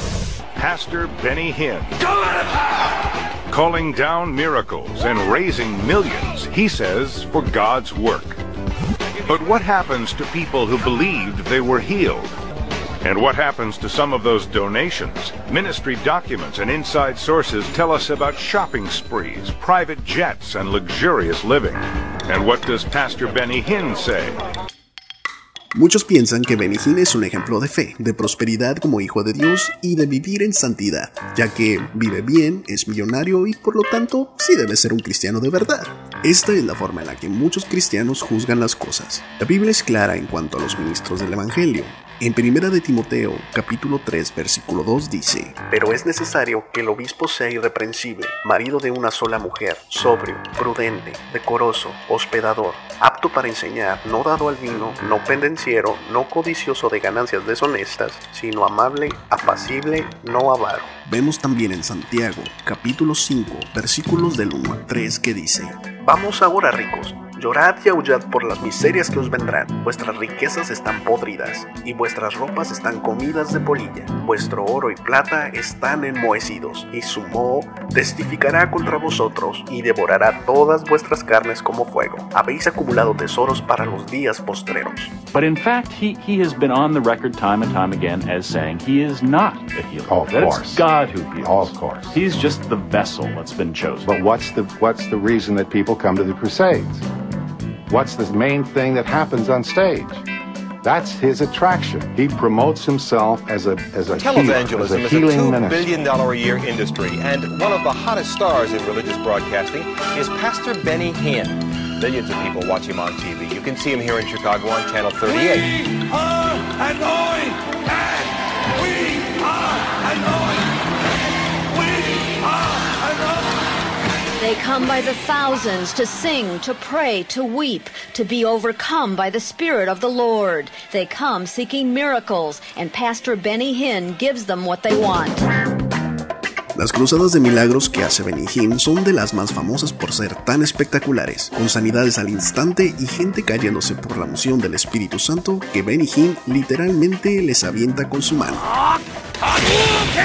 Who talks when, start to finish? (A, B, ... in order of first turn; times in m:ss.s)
0:00.6-0:02.7 A
0:03.5-0:08.4 A
0:09.3-0:12.3 A
0:13.0-0:24.4 A
0:25.7-1:25.2 B
1:25.3-1:34.1 C
1:30.1-1:32.2 D
1:34.0-1:37.0 D
1:37.9-1:40.2 D
1:40.8-1:45.9 D
1:44.1-1:55.8 E
2:04.4-2:15.5 F
2:16.8-2:28.7 B